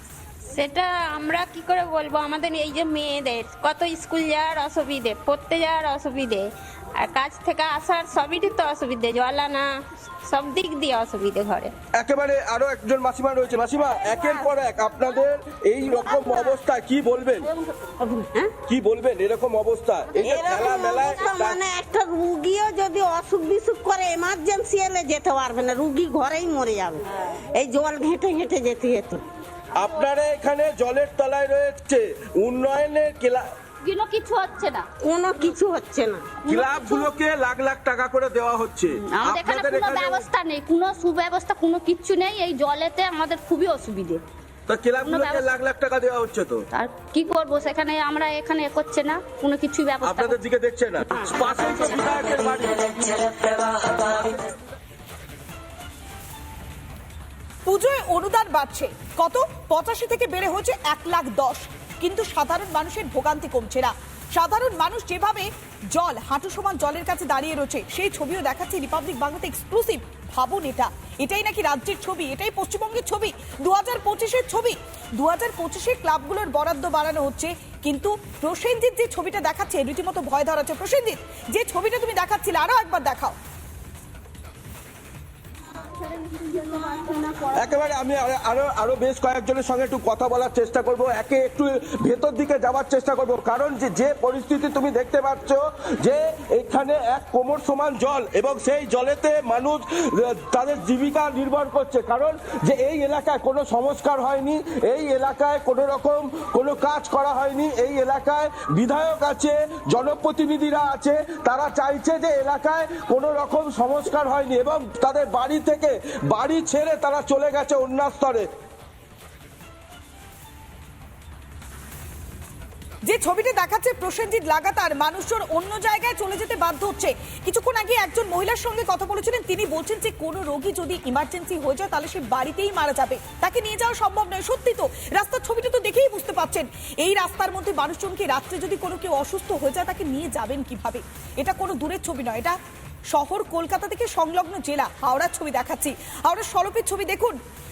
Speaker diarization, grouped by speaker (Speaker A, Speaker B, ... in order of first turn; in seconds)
Speaker A: 0.5-11.7
Speaker B: 11.9-17.5, 18.7-21.6, 29.8-33.5, 36.5-40.3, 44.7-46.6, 50.0-54.3, 87.5-118.5
Speaker C: 18.0-18.5, 20.2-29.2, 35.0-36.3
Speaker D: 33.8-34.9, 36.4-37.1, 39.1-44.2, 45.0-45.5, 46.7-50.4, 86.0-87.5
Speaker E: 57.7-83.3, 123.0-142.6, 143.1-147.4